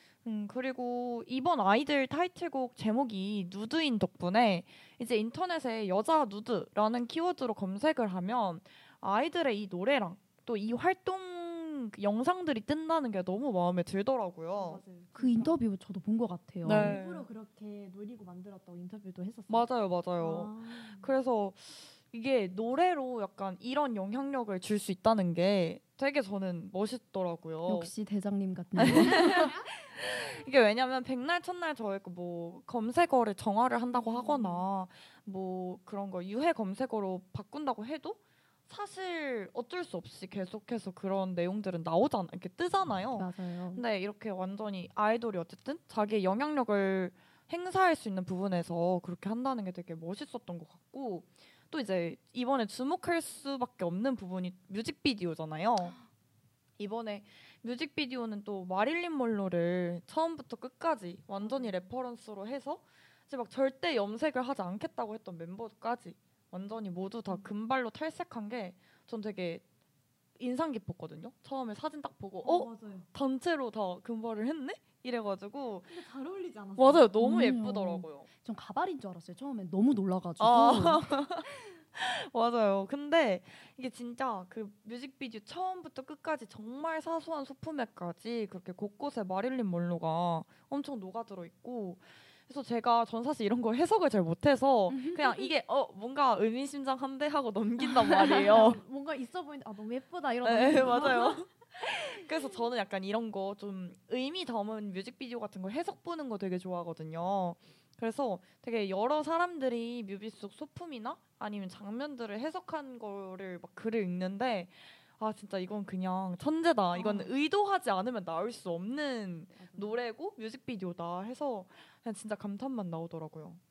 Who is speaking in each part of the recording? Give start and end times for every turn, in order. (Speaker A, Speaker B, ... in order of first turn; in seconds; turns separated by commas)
Speaker A: 0.2-14.8, Speaker B: 14.6-15.6, Speaker C: 15.1-17.0, Speaker A: 16.6-17.3, Speaker B: 16.7-21.1, Speaker A: 19.5-27.9, Speaker C: 27.6-29.5, Speaker A: 28.8-56.0, Speaker B: 28.9-29.7, Speaker B: 33.9-34.7, Speaker C: 43.1-43.8, Speaker A: 56.8-69.6, Speaker B: 61.4-61.8, Speaker A: 70.4-75.9, Speaker B: 72.4-73.1, Speaker B: 75.9-77.1, Speaker A: 76.8-78.3, Speaker C: 77.2-81.7, Speaker A: 80.4-98.8, Speaker C: 94.9-95.5, Speaker C: 97.8-98.7, Speaker B: 98.2-101.4, Speaker A: 100.4-123.6, Speaker B: 116.9-117.3, Speaker B: 119.6-120.0